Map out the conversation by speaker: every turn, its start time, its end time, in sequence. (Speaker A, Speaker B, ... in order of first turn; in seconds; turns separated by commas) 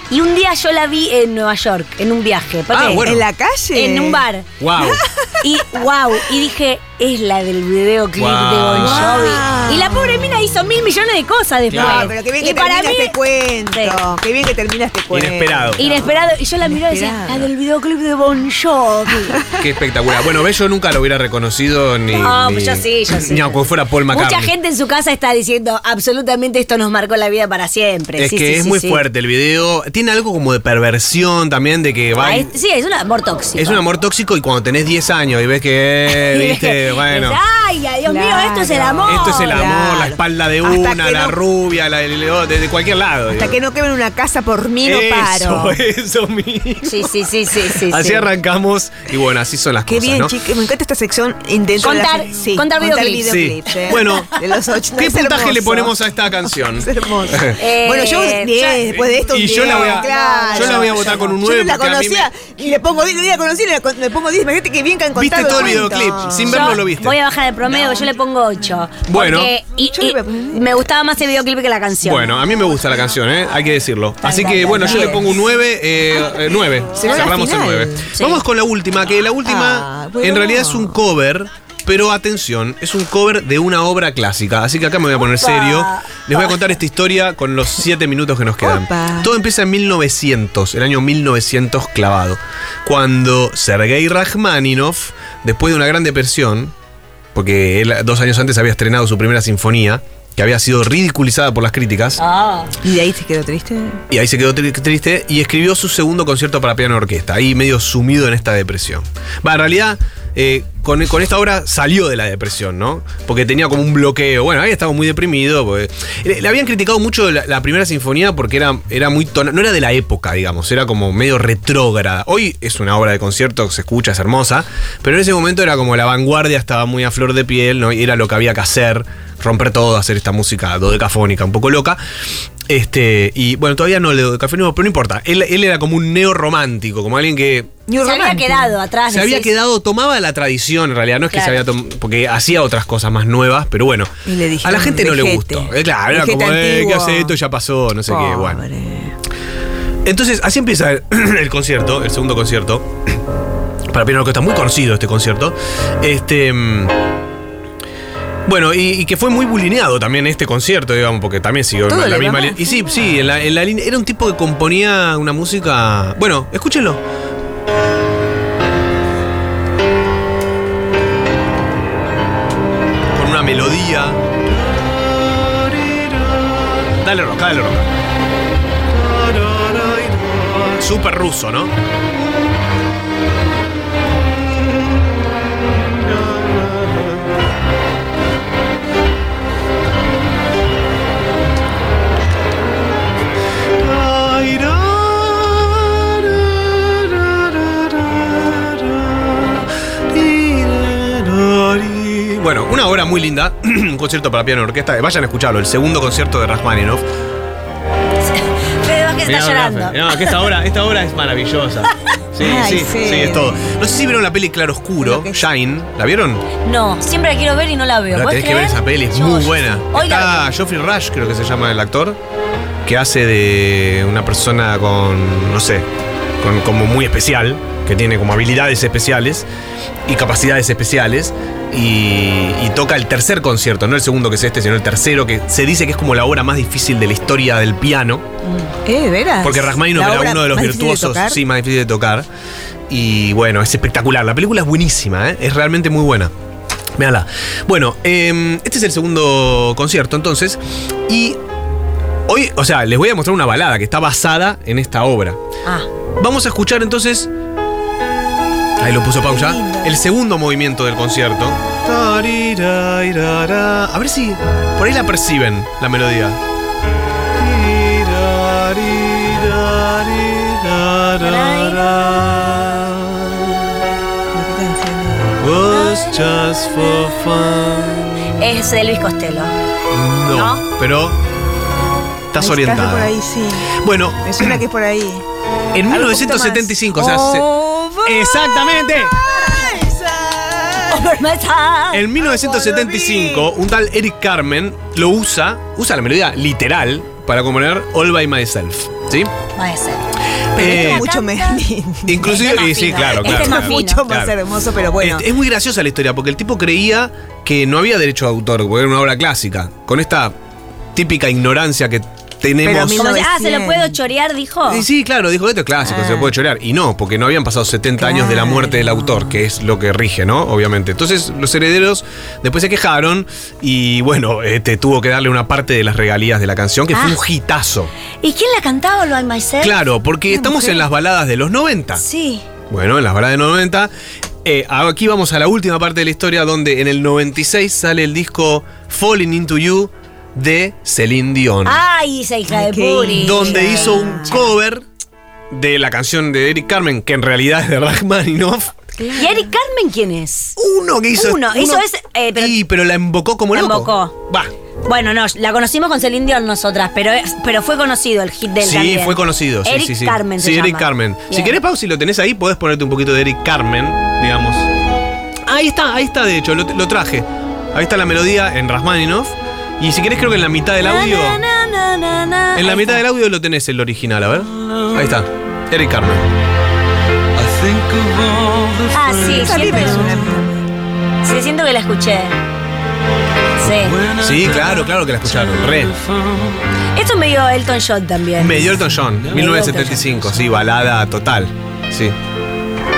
Speaker A: 0.1-3.1, Speaker B: 2.7-3.2, Speaker C: 3.0-4.2, Speaker A: 3.7-4.5, Speaker B: 4.6-5.0, Speaker C: 4.8-5.3, Speaker A: 5.4-13.2, Speaker B: 8.2-9.2, Speaker C: 8.8-10.3, Speaker B: 11.7-12.1, Speaker C: 11.7-17.5, Speaker A: 13.7-14.0, Speaker B: 15.1-15.8, Speaker A: 15.8-19.4, Speaker C: 19.3-19.6, Speaker B: 19.6-24.5, Speaker A: 22.1-29.0, Speaker B: 28.2-32.5, Speaker A: 32.2-33.8, Speaker B: 33.5-37.4, Speaker A: 36.1-39.6, Speaker C: 38.0-41.4, Speaker B: 39.1-43.6, Speaker C: 43.4-45.8, Speaker B: 44.8-47.1, Speaker A: 46.8-48.3, Speaker B: 47.7-50.3, Speaker C: 49.9-56.0, Speaker A: 51.8-54.3, Speaker B: 53.3-54.3, Speaker B: 55.0-57.6, Speaker C: 56.5-66.8, Speaker A: 57.5-58.9, Speaker B: 58.9-62.3, Speaker A: 59.4-61.2, Speaker B: 65.1-67.2, Speaker A: 66.5-72.3, Speaker C: 67.7-68.1, Speaker B: 69.0-69.5, Speaker C: 69.9-70.6, Speaker B: 72.0-96.7, Speaker A: 74.2-75.3, Speaker C: 74.7-75.3, Speaker C: 77.0-78.1, Speaker A: 78.1-78.4, Speaker C: 79.4-81.0, Speaker A: 85.2-86.6, Speaker C: 88.6-89.3, Speaker B: 97.3-102.2, Speaker A: 102.2-102.7, Speaker C: 102.8-104.0, Speaker B: 104.1-132.0, Speaker B: 132.7-137.8, Speaker C: 137.9-138.8, Speaker A: 138.0-139.5, Speaker B: 139.1-148.6, Speaker A: 141.3-141.6, Speaker C: 144.2-147.3, Speaker C: 148.1-149.1, Speaker B: 150.0-153.2, Speaker B: 153.9-156.9, Speaker B: 158.4-167.0, Speaker C: 161.9-163.1, Speaker B: 173.1-177.9, Speaker B: 178.9-181.8, Speaker B: 185.8-187.2, Speaker B: 193.7-207.0, Speaker A: 208.3-210.4, Speaker B: 209.2-216.4, Speaker C: 212.4-213.6, Speaker C: 215.0-215.4, Speaker A: 216.6-220.4, Speaker B: 218.1-222.2, Speaker B: 222.8-225.9, Speaker B: 226.4-229.4, Speaker B: 230.1-238.3, Speaker C: 238.8-241.4, Speaker B: 239.4-242.3, Speaker B: 242.9-246.3, Speaker B: 247.0-251.4, Speaker B: 252.3-255.4, Speaker B: 256.2-257.3, Speaker B: 258.8-266.4, Speaker C: 259.2-260.0, Speaker B: 267.4-273.7, Speaker A: 271.2-271.9, Speaker C: 274.3-275.4, Speaker B: 275.4-278.2, Speaker A: 278.4-279.5, Speaker B: 279.9-281.2, Speaker A: 280.3-280.6, Speaker B: 282.3-283.1, Speaker C: 282.4-285.2, Speaker B: 283.7-284.6, Speaker B: 285.7-289.2, Speaker C: 285.9-291.2, Speaker A: 287.0-288.0, Speaker A: 290.9-292.1, Speaker B: 291.9-299.3, Speaker C: 292.2-293.5, Speaker A: 299.6-301.6, Speaker B: 300.5-301.1, Speaker C: 300.5-305.2, Speaker B: 302.1-304.3, Speaker A: 302.2-304.0, Speaker B: 305.0-310.3, Speaker B: 310.9-313.1, Speaker C: 312.6-314.0, Speaker A: 312.9-314.9, Speaker B: 314.7-327.9, Speaker A: 315.9-316.2, Speaker C: 318.1-319.2, Speaker A: 326.9-327.2, Speaker A: 328.2-329.8, Speaker B: 329.6-332.0, Speaker C: 330.3-330.8, Speaker A: 332.0-332.4, Speaker B: 332.7-333.9, Speaker B: 334.4-341.8, Speaker A: 341.6-344.4, Speaker C: 342.5-344.4, Speaker B: 343.1-344.8, Speaker B: 345.5-348.7, Speaker C: 349.0-349.4, Speaker A: 349.1-350.6, Speaker B: 350.6-351.8, Speaker A: 351.1-352.6, Speaker B: 352.4-354.5, Speaker A: 353.5-354.1, Speaker A: 354.8-361.6, Speaker B: 358.6-364.7, Speaker B: 365.5-371.4, Speaker A: 370.8-373.0, Speaker B: 372.5-376.3, Speaker A: 378.9-380.2, Speaker C: 379.2-380.6, Speaker A: 381.2-382.4, Speaker A: 383.6-384.1, Speaker B: 384.0-385.9, Speaker A: 386.9-390.1, Speaker B: 388.4-392.1